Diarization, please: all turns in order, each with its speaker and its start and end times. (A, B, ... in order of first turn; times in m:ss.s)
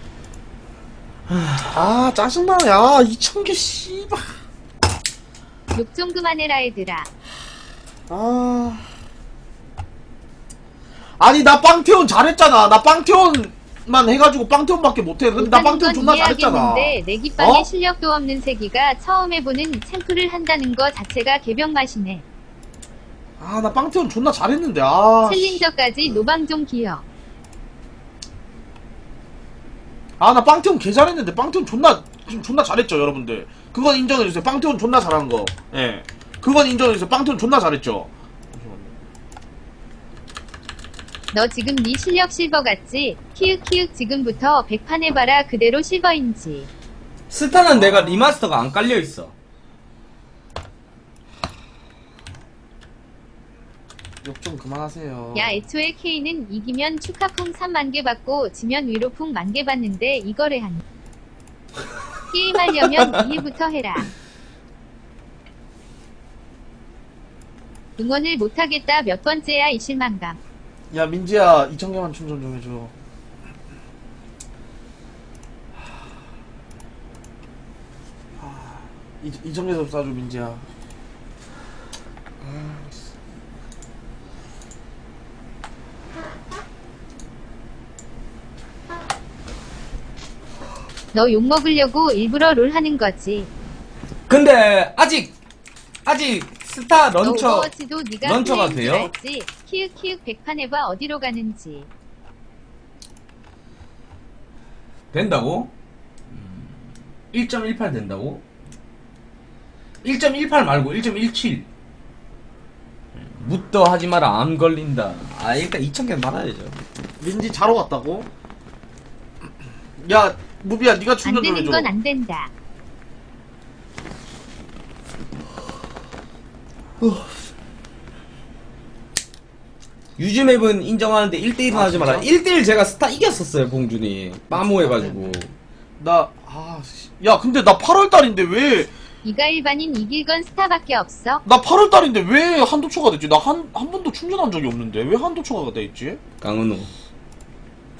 0:01.3-0:01.8 A
0:01.7-0:04.3 B
0:05.7-0:07.1 C
0:08.1-0:08.9 B
0:11.2-0:17.6 B
0:15.4-0:22.2 C
0:23.4-0:25.6 B
0:25.2-0:27.0 C
0:30.2-0:38.9 B
0:41.3-0:46.7 C
0:47.3-0:49.3 A
0:47.7-0:48.2 B
0:54.2-0:55.6 B
0:55.3-1:00.8 C
1:02.3-1:04.1 C
1:02.6-1:03.2 A
1:08.0-1:10.4 C
1:10.9-1:12.9 B
1:18.4-1:20.6 B
1:22.4-1:23.0 B
1:31.1-1:33.5 C
1:34.3-1:35.3 A
1:36.0-1:37.7 A
1:37.2-1:41.9 C
1:38.2-1:39.1 A
1:45.1-1:45.7 A
1:46.3-1:46.7 A
1:47.3-1:48.4 A
1:50.0-1:51.6 A
1:53.2-1:56.8 A
1:57.2-1:58.3 B
2:00.0-2:01.8 B
2:01.2-2:02.5 C
2:07.0-2:07.3 A
2:10.2-2:15.5 A
2:11.7-2:12.3 B
2:16.0-2:18.9 B
2:19.2-2:21.4 C
2:21.4-2:26.2 B
2:26.4-2:26.9 A